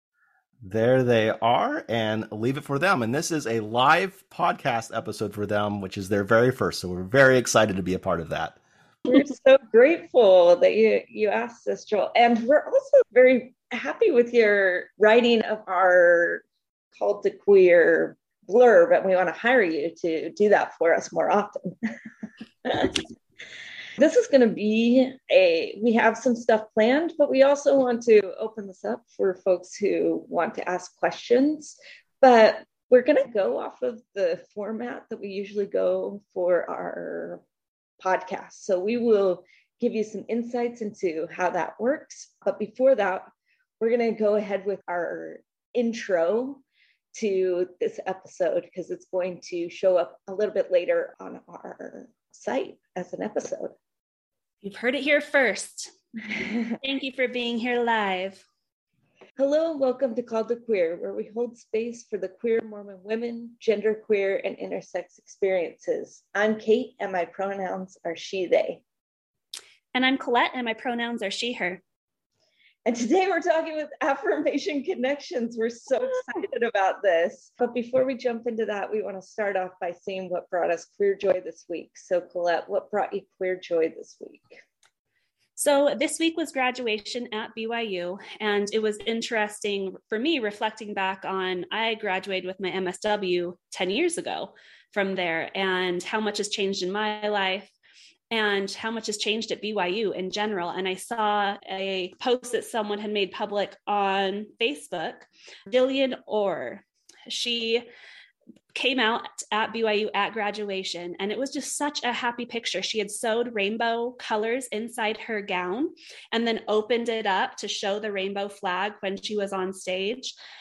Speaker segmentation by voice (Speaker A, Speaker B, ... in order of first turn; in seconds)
Speaker A: 0.6-8.6
Speaker B: 9.1-16.4, 16.9-21.9, 22.6-23.0, 24.0-37.4, 38.0-46.6, 47.1-53.7, 59.4-68.8, 72.8-84.6
Speaker C: 54.6-55.9, 56.8-58.4, 69.9-71.8, 85.6-97.7, 98.3-107.8, 108.7-120.3